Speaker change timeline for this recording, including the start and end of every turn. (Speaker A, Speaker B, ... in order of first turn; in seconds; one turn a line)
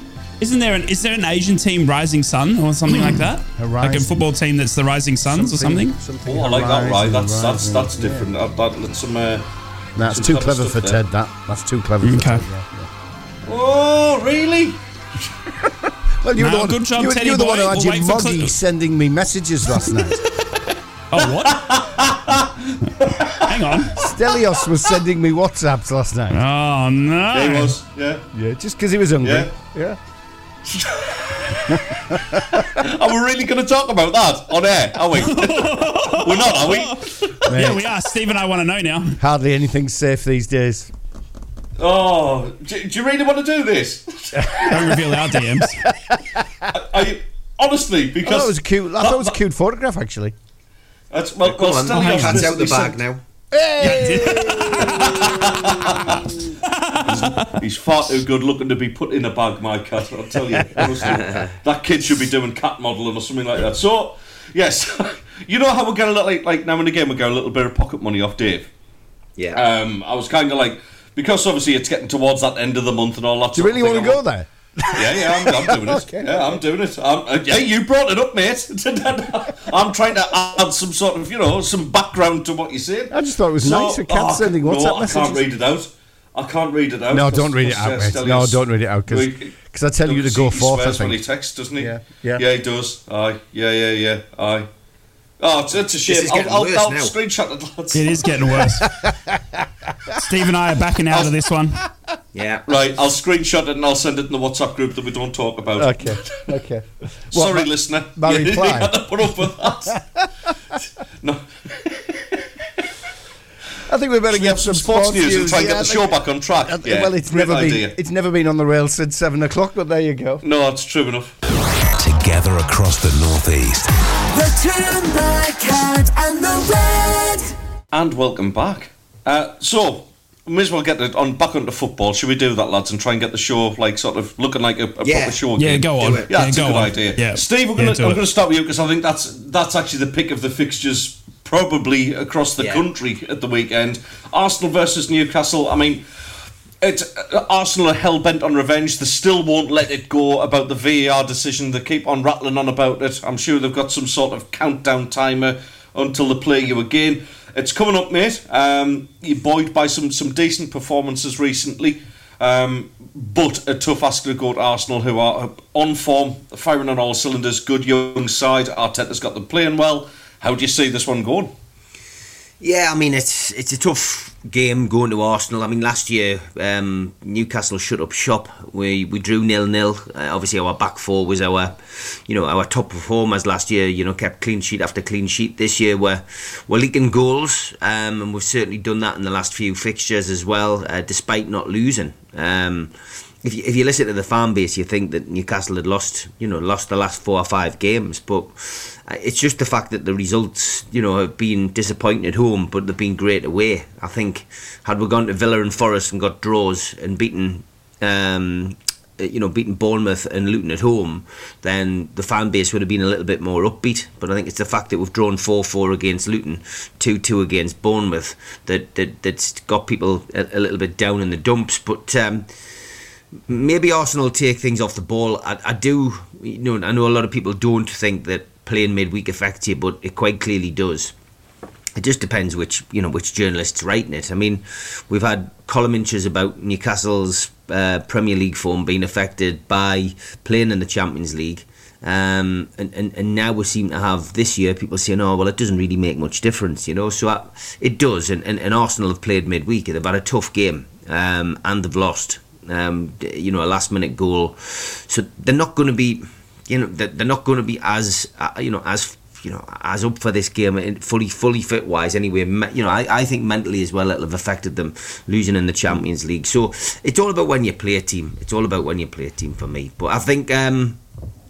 Speaker A: 0.4-6.0
Speaker B: 2.9-4.2
Speaker B: 5.3-8.3
Speaker C: 6.3-9.4
Speaker B: 10.0-12.9
Speaker C: 10.1-11.0
Speaker A: 12.0-12.4
Speaker C: 13.4-14.8
Speaker B: 16.2-20.2
Speaker A: 16.4-18.5
Speaker A: 21.1-21.6
Speaker C: 21.4-23.4
Speaker A: 23.4-24.0
Speaker B: 24.0-26.4
Speaker A: 26.3-27.7
Speaker C: 27.3-28.2
Speaker B: 28.3-30.0
Speaker C: 29.2-29.5
Speaker C: 30.7-37.6
Speaker B: 31.7-32.4
Speaker A: 35.2-39.2
Speaker B: 37.5-37.8
Speaker B: 39.2-40.9
Speaker C: 41.8-44.9
Speaker B: 44.4-46.6
Speaker A: 44.6-45.8
Speaker C: 46.7-49.4
Speaker B: 48.2-50.4
Speaker C: 51.1-53.0
Speaker D: 51.4-53.2
Speaker A: 51.9-52.8
Speaker B: 53.5-55.9
Speaker A: 53.8-55.2
Speaker C: 53.8-56.2
Speaker A: 56.6-57.6
Speaker C: 57.1-68.7
Speaker D: 61.0-61.5
Speaker C: 69.5-74.2
Speaker B: 73.5-76.6
Speaker C: 74.9-89.5
Speaker B: 83.1-85.4
Speaker B: 87.1-91.2
Speaker C: 90.0-94.7
Speaker B: 91.8-92.4
Speaker C: 95.4-98.3
Speaker D: 96.1-97.2
Speaker A: 97.9-98.8
Speaker B: 98.8-99.7
Speaker A: 100.1-101.8
Speaker D: 102.3-102.8
Speaker C: 102.7-106.5
Speaker B: 105.8-108.9
Speaker C: 107.3-110.0
Speaker B: 109.9-110.3
Speaker C: 111.2-112.3
Speaker B: 113.9-120.4
Speaker C: 114.3-117.9
Speaker C: 120.4-121.4
Speaker E: 122.0-123.9
Speaker F: 124.3-127.5
Speaker C: 127.9-146.0
Speaker D: 135.0-135.4
Speaker A: 135.6-138.2
Speaker D: 135.9-136.3
Speaker D: 142.6-142.8
Speaker C: 146.8-171.5
Speaker D: 172.6-222.7
Speaker D: 223.5-231.1
Speaker D: 231.9-271.0